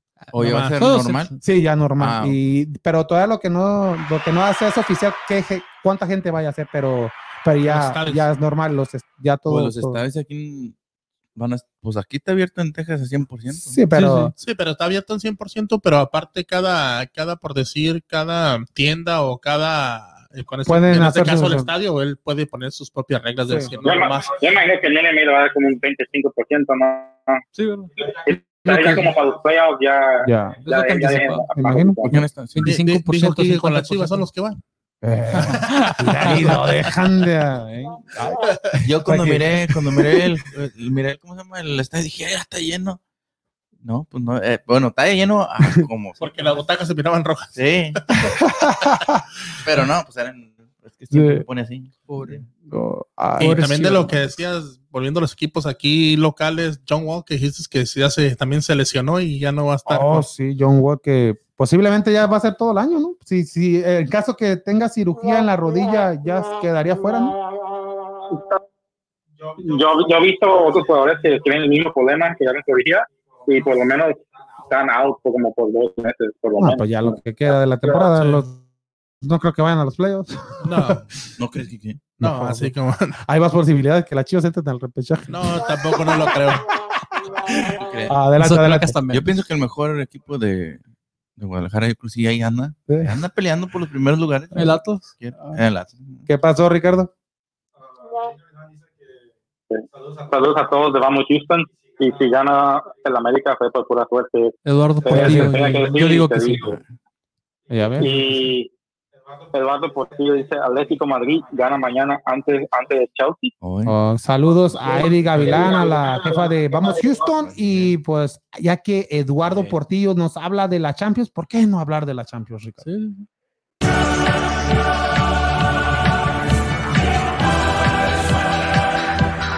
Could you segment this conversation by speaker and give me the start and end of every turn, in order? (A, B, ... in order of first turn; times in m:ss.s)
0:00.2-0:01.4 A
0:00.3-0:01.3 B
0:00.4-0:00.7 C
0:01.4-0:10.0 D
0:02.0-0:02.4 B
0:07.6-0:08.3 C
0:09.5-0:10.7 B
0:11.3-0:13.8 B
0:13.6-0:14.3 D
0:13.9-0:14.3 A
0:14.4-0:24.4 C
0:20.6-0:21.7 D
0:23.5-0:23.7 D
0:23.8-0:27.4 E
0:27.5-0:27.9 A
0:28.0-0:32.1 E
0:28.6-0:29.1 A
0:30.2-0:30.6 D
0:30.6-0:31.5 A
0:31.6-0:32.0 D
0:32.1-0:32.7 B
0:32.1-0:34.3 A
0:32.6-0:34.6 C
0:35.0-0:39.6 D
0:35.4-0:36.7 C
0:35.6-0:36.6 A
0:38.8-0:43.0 B
0:43.8-0:46.3 B
0:46.2-0:48.2 C
0:47.5-0:48.0 B
0:48.4-0:49.1 D
0:49.6-0:52.4 B
0:51.1-0:51.4 D
0:52.1-0:52.4 A
0:52.7-0:54.2 D
0:53.4-1:00.3 C
0:59.8-1:07.4 D
1:08.3-1:08.6 E
1:09.6-1:17.2 E
1:16.6-1:18.5 D
1:18.1-1:18.5 C
1:19.2-1:21.0 D
1:20.6-1:21.1 C
1:21.4-1:22.1 B
1:22.2-1:22.7 D
1:22.2-1:23.2 C
1:23.2-1:26.3 D
1:25.3-1:26.7 C
1:27.2-1:29.0 D
1:27.6-1:28.2 B
1:28.4-1:29.4 A
1:29.1-1:30.8 B
1:31.4-1:36.2 B
1:32.9-1:33.2 D
1:34.5-1:35.1 A
1:36.3-1:37.1 D
1:39.7-1:46.8 E
1:44.6-1:46.7 A
1:45.1-1:45.8 D
1:47.7-1:48.4 D
1:48.0-1:48.7 E
1:49.5-1:53.5 E
1:53.6-1:53.9 B
1:53.8-2:02.8 D
1:55.6-1:56.0 E
1:57.3-1:57.9 B
1:59.4-1:59.8 B
2:02.8-2:03.2 A